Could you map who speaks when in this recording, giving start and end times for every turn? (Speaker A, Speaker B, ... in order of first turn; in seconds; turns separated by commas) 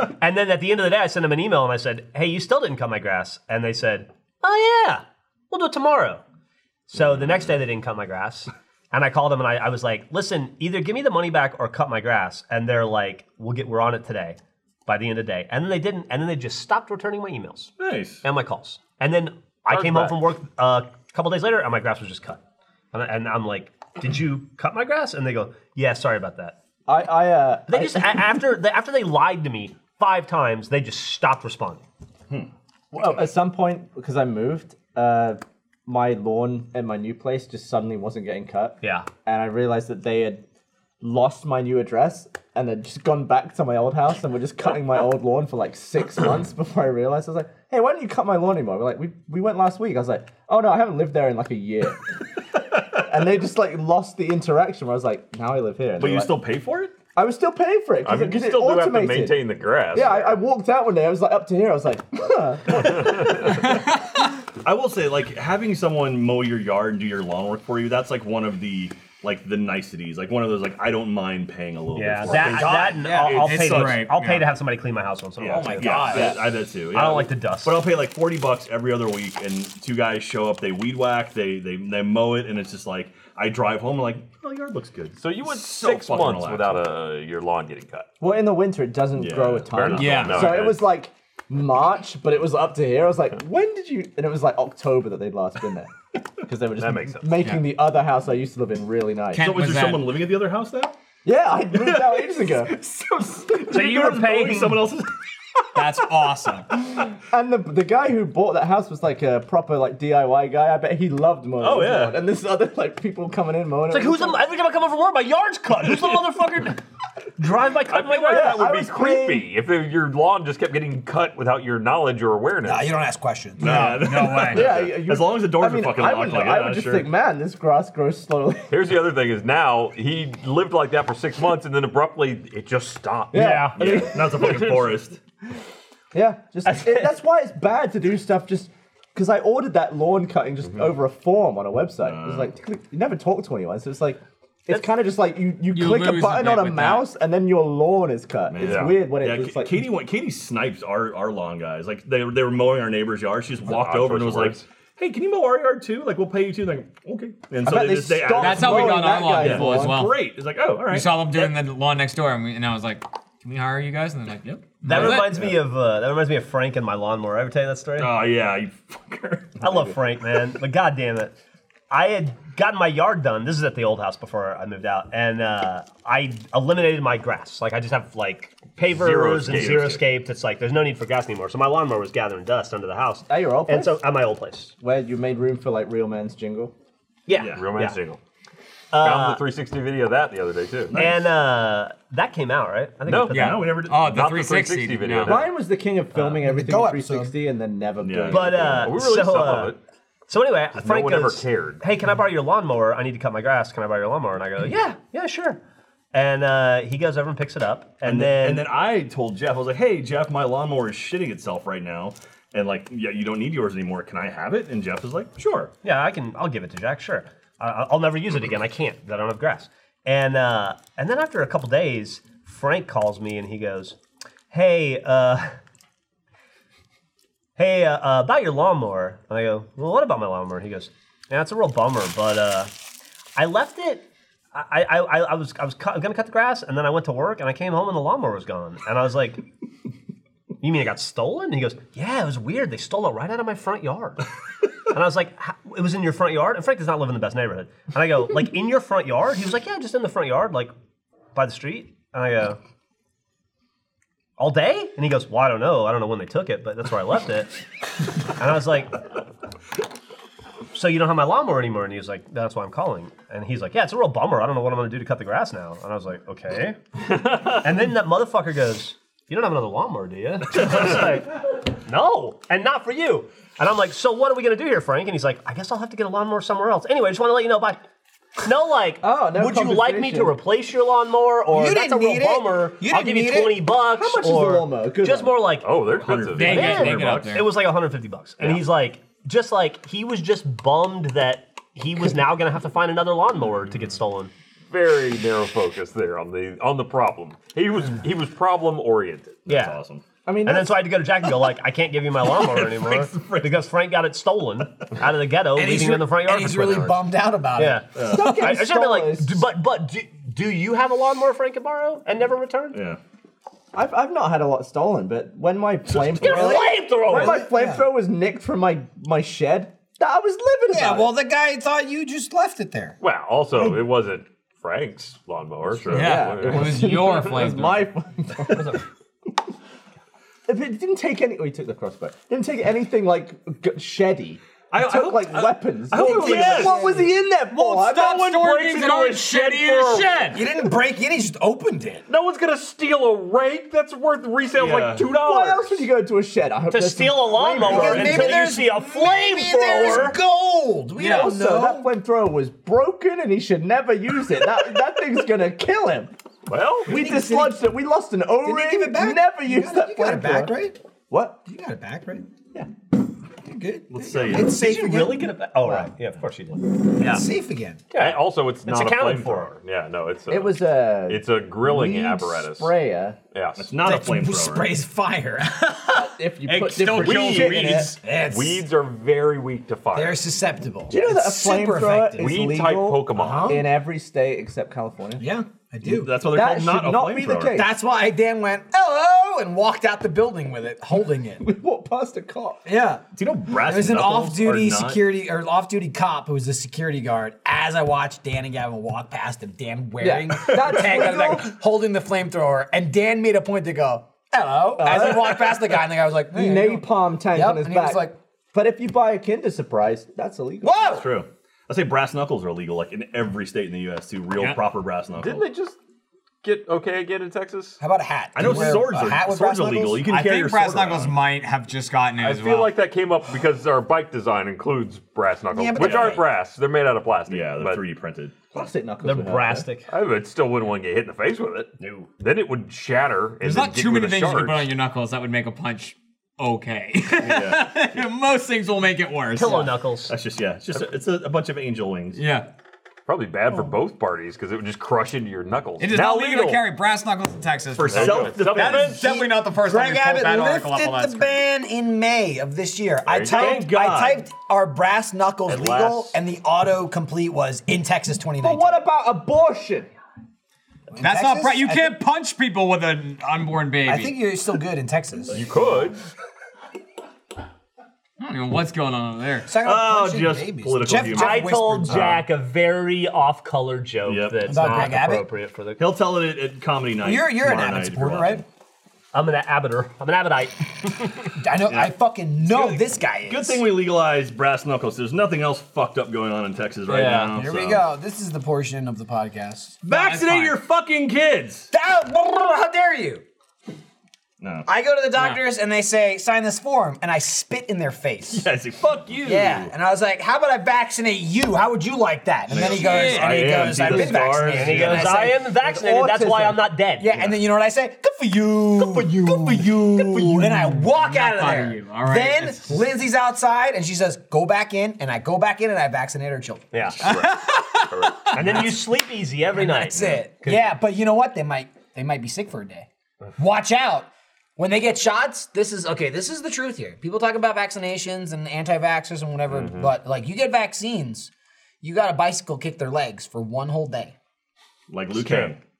Speaker A: 0.2-6.2, Speaker A: 6.9-22.4, Speaker B: 17.8-18.2, Speaker C: 19.7-20.2, Speaker A: 22.9-26.5, Speaker D: 26.9-28.3, Speaker A: 27.7-31.8, Speaker D: 32.9-40.4, Speaker A: 38.8-39.1, Speaker D: 41.0-52.0, Speaker D: 52.9-56.5, Speaker B: 56.0-56.9, Speaker D: 57.1-63.1, Speaker C: 58.0-60.4, Speaker B: 62.9-63.5, Speaker E: 63.5-64.0, Speaker B: 64.6-74.1, Speaker A: 71.9-77.8, Speaker F: 72.4-73.4, Speaker E: 73.2-74.4, Speaker B: 75.4-86.9, Speaker F: 75.5-76.3, Speaker C: 76.0-76.3, Speaker C: 85.2-88.1, Speaker D: 88.2-95.9, Speaker B: 89.2-90.7, Speaker C: 89.7-90.9, Speaker E: 90.0-90.6, Speaker D: 96.4-99.5, Speaker C: 96.7-97.5, Speaker E: 99.3-100.1, Speaker B: 99.3-101.0, Speaker D: 101.2-102.7, Speaker B: 101.7-105.8, Speaker A: 103.6-104.9, Speaker E: 105.7-106.7, Speaker D: 107.2-114.4, Speaker B: 111.6-112.1, Speaker A: 113.9-116.8, Speaker A: 117.4-118.7, Speaker C: 117.8-122.9, Speaker D: 118.3-119.5, Speaker F: 122.6-124.1, Speaker B: 123.6-127.1, Speaker E: 123.6-124.7, Speaker D: 124.5-128.7, Speaker C: 128.7-133.8, Speaker D: 133.3-134.2, Speaker A: 133.3-134.1, Speaker B: 133.8-135.2, Speaker C: 134.4-134.9, Speaker D: 136.1-149.9, Speaker A: 136.8-137.1, Speaker B: 142.0-142.5, Speaker E: 145.7-147.1, Speaker B: 148.5-161.5, Speaker C: 148.6-149.0, Speaker C: 153.7-154.6, Speaker D: 157.6-160.0, Speaker E: 158.3-160.2, Speaker E: 160.9-165.2, Speaker A: 164.8-168.1, Speaker B: 164.9-165.6, Speaker B: 168.0-169.7, Speaker A: 169.6-171.3, Speaker A: 171.9-184.7, Speaker C: 178.9-180.0, Speaker D: 183.3-184.0, Speaker D: 184.8-186.7, Speaker A: 187.3-188.0, Speaker C: 187.4-188.2, Speaker A: 188.9-189.4, Speaker C: 189.0-191.0, Speaker B: 190.9-191.3, Speaker A: 190.9-193.7, Speaker C: 193.0-195.5, Speaker B: 193.2-194.1, Speaker E: 193.3-195.3, Speaker D: 195.2-198.8, Speaker F: 196.4-197.3, Speaker B: 198.0-198.9, Speaker A: 198.3-199.7, Speaker C: 198.8-199.8, Speaker A: 200.3-205.6, Speaker C: 200.7-201.8, Speaker A: 206.1-208.7, Speaker B: 208.0-215.7, Speaker A: 215.8-224.0, Speaker A: 224.5-225.6, Speaker A: 227.6-232.7, Speaker A: 233.3-239.4, Speaker A: 240.6-244.2, Speaker A: 244.9-250.7, Speaker A: 251.3-252.6, Speaker A: 254.4-257.5, Speaker A: 258.4-259.0, Speaker A: 260.7-266.8, Speaker A: 267.5-277.8, Speaker A: 278.4-285.8, Speaker D: 279.0-280.4, Speaker F: 281.4-283.6, Speaker D: 283.9-285.5, Speaker C: 285.6-286.9, Speaker B: 285.9-287.5, Speaker E: 286.3-287.5, Speaker A: 286.4-294.3, Speaker C: 288.4-288.6, Speaker C: 294.7-299.5, Speaker A: 299.5-299.8, Speaker B: 299.5-300.0, Speaker D: 300.2-300.8, Speaker A: 300.4-312.8, Speaker B: 302.3-303.6, Speaker F: 305.5-307.8, Speaker B: 307.9-308.4, Speaker D: 308.0-309.4, Speaker B: 312.7-313.0, Speaker D: 313.7-321.1, Speaker B: 315.9-316.4, Speaker A: 316.2-317.5, Speaker F: 316.2-317.9, Speaker F: 320.7-323.0, Speaker C: 323.0-327.5, Speaker B: 325.8-326.2, Speaker D: 325.9-328.8, Speaker E: 325.9-327.9, Speaker A: 328.5-328.8, Speaker D: 330.5-338.6, Speaker B: 334.7-336.8, Speaker F: 336.0-337.1, Speaker E: 337.5-340.5, Speaker C: 338.3-340.4, Speaker F: 340.3-342.0, Speaker C: 342.1-345.9, Speaker B: 344.6-345.1, Speaker D: 345.1-348.4, Speaker A: 346.7-350.2, Speaker F: 347.6-351.9, Speaker E: 351.0-351.3, Speaker D: 351.0-356.1, Speaker C: 356.5-356.9, Speaker F: 356.8-357.6, Speaker D: 356.9-360.6, Speaker F: 358.4-360.8, Speaker D: 361.1-361.4, Speaker F: 361.4-362.2, Speaker F: 363.4-365.4, Speaker B: 363.9-364.6, Speaker A: 364.4-367.2, Speaker F: 367.0-367.9, Speaker A: 367.9-369.5, Speaker C: 367.9-372.7, Speaker D: 370.3-373.2, Speaker C: 373.3-373.7, Speaker B: 373.6-374.8, Speaker F: 373.8-376.1, Speaker D: 375.9-377.9, Speaker E: 376.4-378.0, Speaker C: 376.8-380.2, Speaker F: 378.0-378.7, Speaker F: 379.9-382.4, Speaker D: 380.9-385.2, Speaker C: 382.2-383.6, Speaker F: 383.1-383.6, Speaker F: 385.2-386.2, Speaker B: 385.8-387.6, Speaker D: 386.3-387.7, Speaker F: 387.5-391.4, Speaker D: 391.4-392.6, Speaker F: 392.6-408.1, Speaker B: 393.1-395.0, Speaker D: 400.0-401.5, Speaker D: 404.8-405.7, Speaker D: 406.3-410.7, Speaker F: 410.6-411.1, Speaker B: 410.8-415.5, Speaker C: 415.1-415.8, Speaker C: 416.4-417.8, Speaker F: 417.8-420.1, Speaker B: 418.3-421.2, Speaker E: 420.1-422.8, Speaker C: 422.2-427.8, Speaker F: 425.5-426.3, Speaker B: 425.8-426.1, Speaker B: 427.3-428.4, Speaker D: 428.5-429.7, Speaker A: 429.0-429.9, Speaker C: 429.9-434.7, Speaker A: 431.8-432.1, Speaker E: 433.4-439.7, Speaker B: 437.2-437.7, Speaker A: 439.3-440.1, Speaker B: 440.1-442.2, Speaker E: 442.1-442.5, Speaker C: 443.1-446.6, Speaker E: 445.8-451.4, Speaker B: 447.8-449.0, Speaker C: 447.9-449.0, Speaker F: 448.8-458.8, Speaker C: 453.1-453.6, Speaker B: 453.2-454.2, Speaker C: 455.5-456.2, Speaker D: 458.4-459.9, Speaker F: 460.9-462.0, Speaker E: 461.0-464.2, Speaker F: 463.8-465.5, Speaker C: 465.3-466.0, Speaker E: 468.2-469.5, Speaker F: 469.4-472.2, Speaker B: 469.6-472.2, Speaker A: 471.1-475.8, Speaker B: 474.1-474.7, Speaker F: 474.5-475.3, Speaker B: 475.8-478.4, Speaker F: 477.0-478.4, Speaker A: 479.1-481.4, Speaker F: 481.4-483.7, Speaker B: 481.7-487.9, Speaker F: 487.3-489.8, Speaker B: 489.8-491.7, Speaker E: 489.9-490.6, Speaker F: 491.7-493.2, Speaker B: 494.4-494.7, Speaker F: 494.6-498.4, Speaker B: 498.3-499.7, Speaker F: 499.2-505.4, Speaker B: 502.5-505.2, Speaker E: 502.7-503.6, Speaker A: 504.4-507.3, Speaker D: 505.5-506.7, Speaker F: 507.0-516.7, Speaker E: 509.5-512.8, Speaker A: 516.7-517.1, Speaker C: 517.0-518.8, Speaker E: 517.0-518.6, Speaker A: 518.3-520.7, Speaker F: 519.5-531.3, Speaker C: 529.5-529.9, Speaker F: 531.8-534.1, Speaker B: 534.9-535.6